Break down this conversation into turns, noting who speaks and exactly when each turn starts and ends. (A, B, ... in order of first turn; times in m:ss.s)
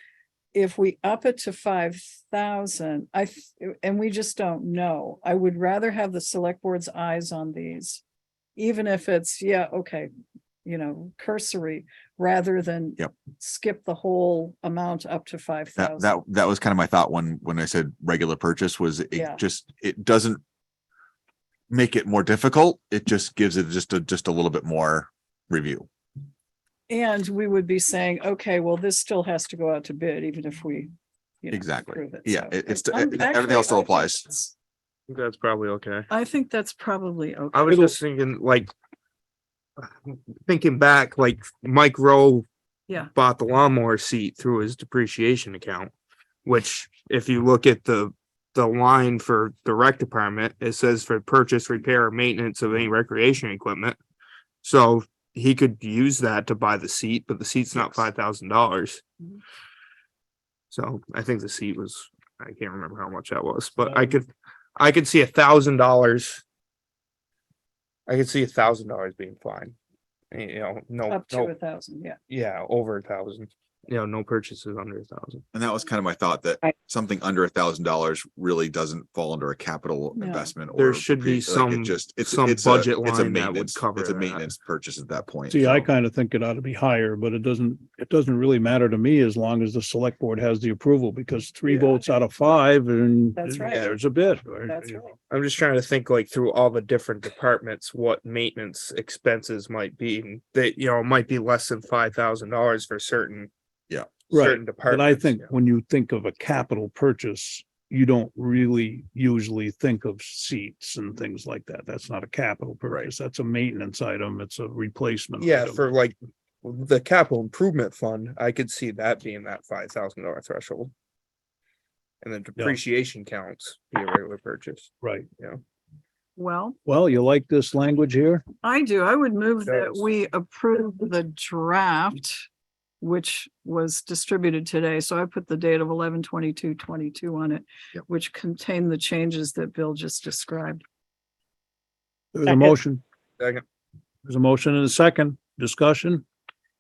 0:00.5-0:08.0 A
0:08.6-0:10.1 A
0:10.6-0:16.1 A
0:15.8-0:20.4 B
0:19.1-0:19.4 A
0:21.7-0:25.9 B
0:26.9-0:30.9 A
0:31.4-0:34.5 A
0:31.5-0:34.2 B
0:35.1-0:36.1 C
0:36.1-0:38.0 A
0:37.5-0:38.7 C
0:39.8-0:42.5 C
0:43.1-0:45.9 C
0:46.4-0:54.0 C
0:54.6-0:59.0 C
1:00.7-1:06.4 C
1:08.1-1:09.7 C
1:10.3-1:11.5 C
1:11.1-1:12.2 A
1:12.3-1:15.4 C
1:15.5-1:25.9 B
1:20.2-1:20.5 A
1:20.7-1:24.5 C
1:25.5-1:35.0 D
1:33.4-1:33.9 A
1:33.7-1:34.0 C
1:34.7-1:35.2 A
1:35.3-1:43.5 C
1:44.3-1:45.5 C
1:44.3-1:55.8 D
1:55.4-2:00.9 C
2:02.2-2:05.6 C
2:05.0-2:05.3 D
2:06.4-2:06.8 A
2:06.8-2:08.4 D
2:08.6-2:12.4 A
2:09.6-2:10.1 C
2:13.0-2:20.8 A
2:22.3-2:23.0 D
2:24.2-2:26.2 D